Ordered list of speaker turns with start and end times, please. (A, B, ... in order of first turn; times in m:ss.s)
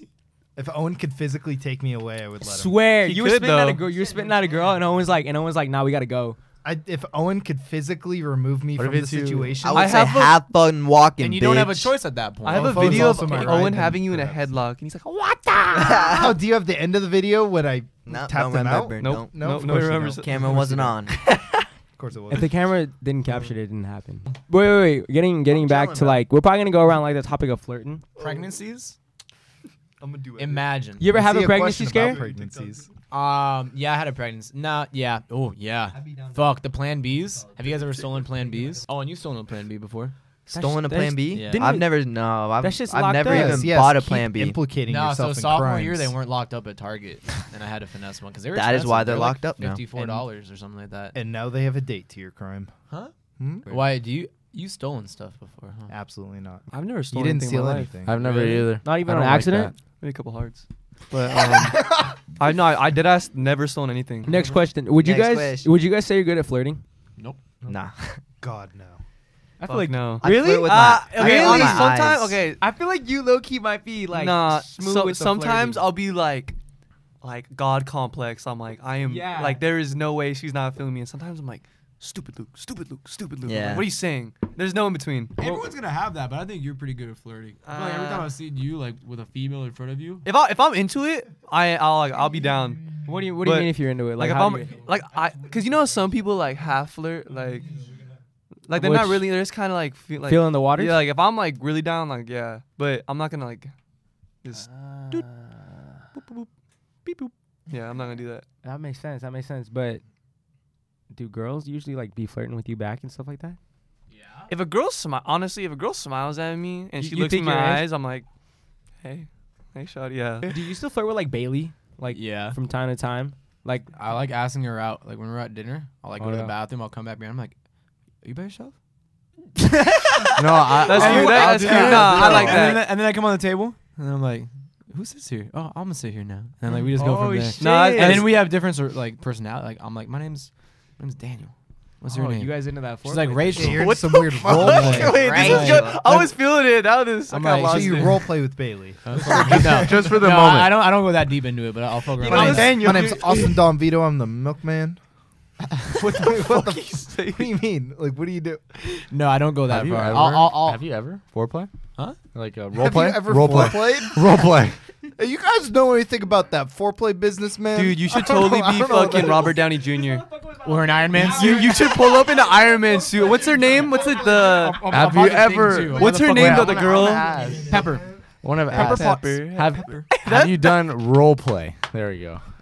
0:00.6-0:02.8 A
0:02.4-0:06.4 B
0:03.0-0:03.8 C
0:06.6-0:09.9 A
0:08.8-0:09.6 D
0:09.6-0:12.0 E
0:09.7-0:10.4 C
0:11.2-0:13.6 F
0:12.4-0:16.2 C
0:12.4-0:14.5 A
0:15.7-0:16.4 E
0:16.1-0:20.2 A
0:18.0-0:19.4 E
0:19.0-0:20.9 C
0:20.2-0:21.2 E
0:22.0-0:22.7 A
0:22.3-0:28.0 B
0:25.5-0:26.2 E
0:28.2-0:29.0 F
0:30.0-0:30.7 C
0:30.4-0:31.0 F
0:31.0-0:32.2 B
0:31.0-0:32.9 A
0:33.1-0:40.1 F
0:40.5-0:44.6 E
0:40.5-0:41.9 B
0:41.3-0:41.6 F
0:42.6-0:43.7 B
0:43.2-0:46.1 A
0:44.8-0:51.2 F
0:48.5-0:50.2 E
0:51.1-0:52.7 A
0:53.4-0:53.7 A
0:53.6-0:55.9 F
0:55.9-0:58.6 A
0:56.7-0:57.9 C
0:58.0-0:59.7 D
0:58.8-0:59.7 B
1:00.0-1:04.6 C
1:04.2-1:06.8 B
1:05.0-1:05.7 E
1:07.7-1:08.2 E
1:08.4-1:09.0 A
1:09.6-1:12.0 B
1:09.6-1:12.6 C
1:10.2-1:12.4 E
1:12.6-1:15.8 B
1:14.1-1:16.6 C
1:17.2-1:25.4 C
1:19.0-1:19.6 B
1:23.4-1:23.9 E
1:25.4-1:30.2 F
1:27.6-1:28.3 C
1:30.2-1:37.8 C
1:33.0-1:34.8 B
1:38.7-1:43.7 C
1:38.7-1:39.3 B
1:40.2-1:41.1 B
1:44.4-1:44.7 C
1:45.1-1:45.6 B
1:46.1-1:46.5 C
1:47.0-1:48.4 C
1:48.6-1:50.0 B
1:51.1-1:53.6 B
1:54.1-1:54.5 F
1:54.5-1:58.3 C
1:57.0-1:57.9 B
1:59.0-2:00.6 C
2:00.5-2:03.9 B
2:02.1-2:02.6 F
2:03.9-2:07.5 F
2:06.2-2:06.5 B
2:08.2-2:08.7 F
2:10.2-2:26.0 F
2:10.4-2:12.7 D
2:10.8-2:12.9 C
2:11.0-2:11.3 B
2:17.0-2:18.3 B
2:17.6-2:18.4 C
2:22.0-2:23.8 B
2:23.5-2:25.5 A
2:23.6-2:28.2 C
2:25.1-2:26.0 E
2:27.3-2:28.2 F
2:27.6-2:29.8 A
2:29.1-2:33.3 F
2:29.2-2:30.8 D
2:32.2-2:33.5 C
2:32.2-2:35.0 A
2:35.8-2:38.8 A
2:36.0-2:37.6 C
2:39.1-2:40.8 F
2:39.7-2:41.7 D
2:42.3-2:44.8 D
2:42.8-2:44.5 A
2:45.2-2:49.6 A
2:47.7-2:50.4 C
2:50.4-2:51.8 B
2:50.6-2:52.6 F
2:51.2-2:55.2 C
2:53.6-2:53.9 B
2:54.5-2:58.0 F
2:54.6-2:57.9 D
2:55.7-2:57.3 C
2:58.4-3:02.4 D
2:58.7-3:00.7 C
2:58.7-2:59.2 F